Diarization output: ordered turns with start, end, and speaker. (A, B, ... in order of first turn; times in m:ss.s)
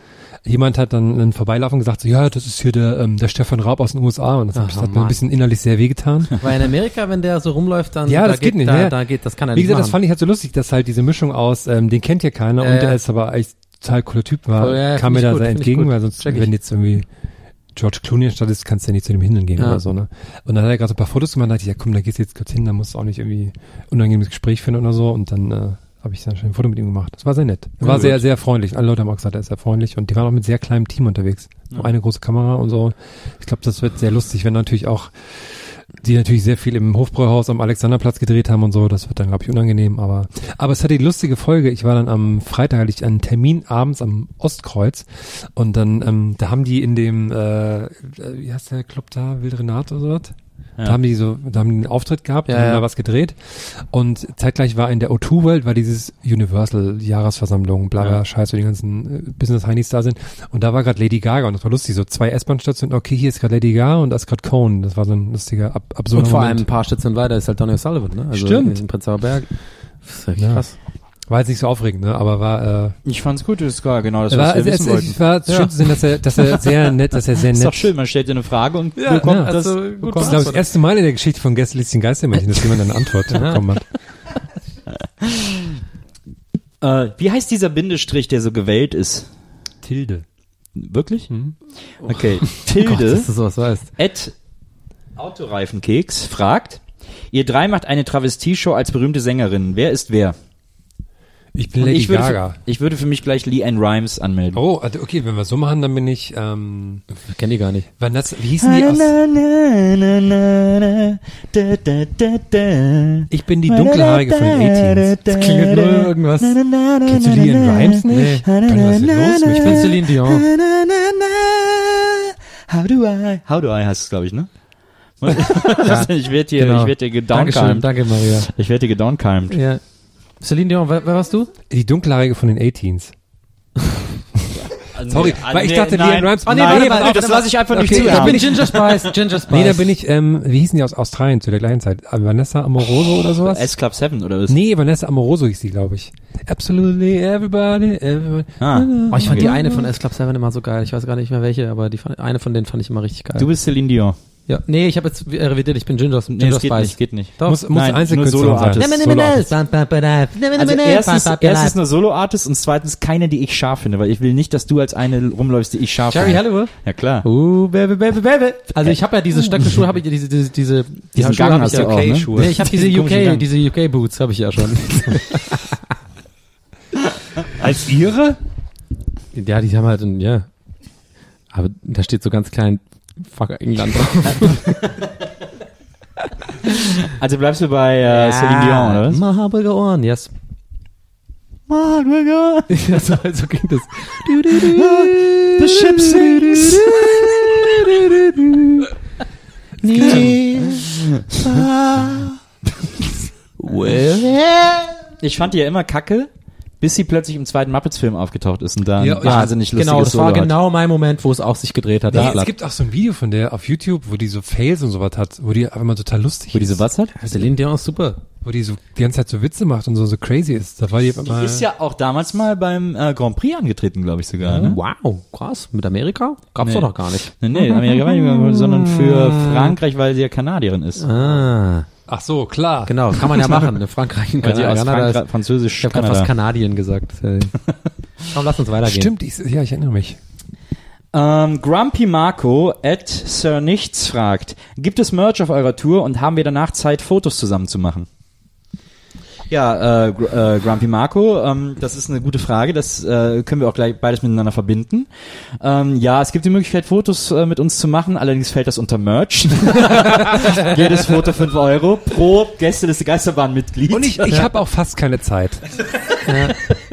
0:00.4-0:06.4 A
0:04.6-0:05.2 B
0:06.4-0:10.0 B
0:08.1-0:09.0 A
0:09.5-0:17.1 A
0:12.6-0:13.0 B
0:14.6-0:16.5 B
0:17.8-1:06.7 A
0:19.6-0:19.8 B
0:52.5-0:52.8 B
1:06.1-1:09.5 B
1:08.3-1:08.8 A
1:10.0-1:10.8 B
1:10.4-1:10.6 A
1:11.3-1:13.0 A
1:13.0-1:15.2 C
1:14.3-1:17.9 A
1:17.5-1:20.5 C
1:19.0-1:20.6 B
1:19.2-1:23.9 A
1:23.3-1:23.7 B
1:25.2-1:25.8 C
1:26.8-1:29.3 C
1:29.8-1:30.2 A
1:30.8-1:31.3 C
1:32.0-1:33.9 B
1:32.0-1:33.3 C
1:34.0-1:34.3 C
1:35.2-1:40.4 C
1:41.6-1:42.6 A
1:41.8-1:44.6 C
1:44.5-1:47.0 A
1:47.3-1:47.9 B
1:48.0-1:49.2 A
1:48.6-2:04.5 C
1:53.3-1:55.1 A
1:55.3-1:56.5 B
1:57.1-2:00.0 A
1:58.1-1:58.4 B
1:59.6-2:00.5 B
2:05.2-2:09.6 C
2:05.4-2:08.5 B
2:09.5-2:09.8 B
2:10.4-2:11.5 B
2:11.7-2:13.1 A
2:14.7-2:19.1 C
2:15.0-2:23.7 A
2:16.4-2:19.9 B
2:23.3-2:24.6 C
2:24.5-2:29.8 A
2:28.6-2:29.6 C
2:29.1-2:33.5 B
2:33.4-2:34.2 C
2:34.5-2:37.6 B
2:36.3-2:38.9 C
2:37.4-2:39.5 A
2:38.8-2:41.8 B
2:40.6-2:47.3 C
2:46.1-2:46.7 B
2:47.2-2:55.8 B
2:51.2-2:53.4 C
2:51.7-2:52.6 A
2:57.6-2:58.4 A
2:59.4-3:00.5 B
3:01.5-3:04.8 B
3:04.4-3:05.1 C
3:06.6-3:09.2 C
3:08.1-3:10.3 B
3:11.7-3:13.0 C
3:12.7-3:18.9 B
3:14.5-3:18.4 C
3:19.8-3:22.1 B
3:20.0-3:22.4 C
3:23.6-3:25.0 B
3:25.2-3:26.3 C
3:26.8-3:30.5 C
3:29.0-3:29.5 A
3:29.2-3:32.5 B
3:32.1-3:36.8 A
3:36.5-3:37.2 C
3:37.2-3:38.2 B
3:38.4-3:41.7 A
3:41.2-3:44.8 C
3:44.4-3:49.7 B
3:46.6-3:51.1 C
3:51.0-3:51.9 B
3:52.1-3:53.7 A
3:52.9-3:55.2 B
3:54.4-3:56.3 C
3:55.8-3:57.6 B
3:58.3-3:59.1 B
3:58.8-4:00.2 A
4:01.1-4:08.1 C
4:09.5-4:15.1 C
4:15.6-4:24.3 C
4:23.9-4:25.6 A
4:26.3-4:26.6 B